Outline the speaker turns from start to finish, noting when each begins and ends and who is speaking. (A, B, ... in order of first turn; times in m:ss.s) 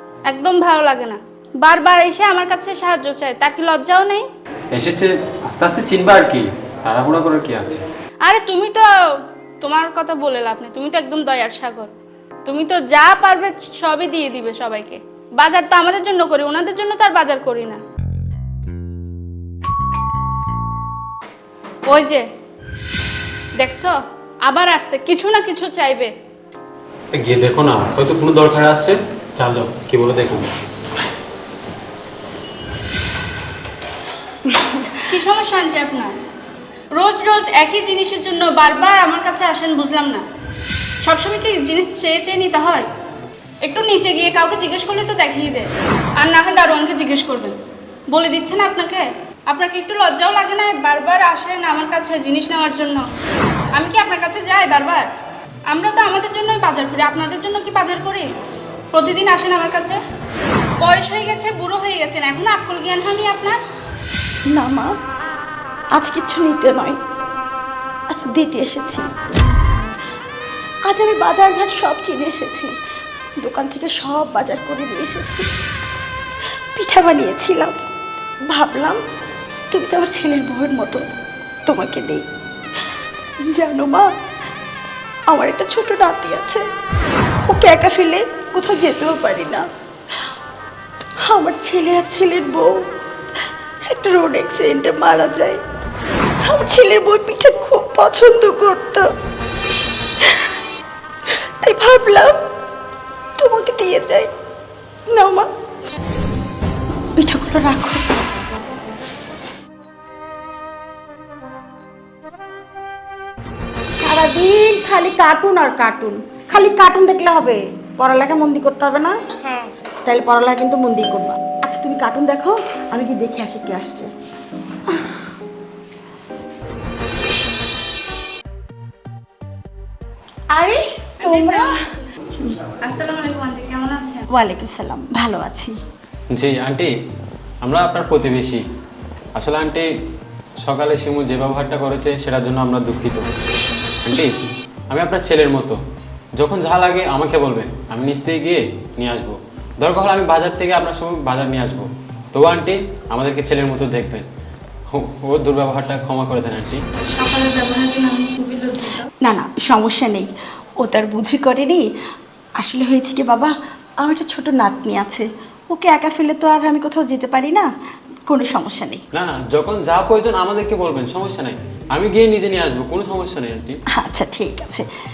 0:00.2-0:04.3 A
0:04.7-0:07.8 B
0:08.2-0:08.9 A
0:09.6-0:11.9 A
0:12.4-0:17.8 A
0:21.9-0:22.3 A
0:23.6-0:26.1 A
0:27.1-0:30.5 B
0:35.0-0:36.2 A
0:36.9-0:40.2 A
0:41.0-0:42.9 A
0:43.6-0:47.6 A
0:48.1-0:53.0 A
0:53.7-0:55.1 A
0:55.7-0:58.3 A
0:58.9-1:00.0 A
1:00.8-1:03.6 A
1:04.5-1:04.9 C
1:05.9-1:07.0 C
1:08.1-1:09.1 C
1:10.9-1:12.7 C
1:13.4-1:15.5 C
1:16.7-1:17.8 C
1:18.5-1:19.0 C
1:19.7-1:21.1 C
1:21.6-1:22.2 C
1:23.5-1:24.1 C
1:25.3-1:26.6 C
1:27.5-1:29.6 C
1:31.2-1:32.9 C
1:33.9-1:35.6 C
1:36.4-1:39.1 C
1:41.6-1:42.4 C
1:43.4-1:44.3 C
1:45.1-1:45.5 C
1:47.2-1:48.0 C
1:54.0-1:59.2 C
2:00.0-2:04.1 C
2:10.5-2:11.8 C
2:11.2-2:11.8 A
2:12.8-2:14.2 A
2:14.3-2:15.8 C
2:16.3-2:16.9 B
2:17.6-2:18.6 B
2:19.3-2:19.9 B
2:20.6-2:23.2 B
2:24.0-2:24.3 B
2:24.9-2:25.8 B
2:26.4-2:34.3 B
2:34.9-2:36.8 B
2:37.0-2:39.1 A
2:39.2-2:41.8 C
2:42.6-2:47.7 C
2:48.3-2:49.0 C
2:49.1-2:53.8 B
2:53.9-2:54.9 C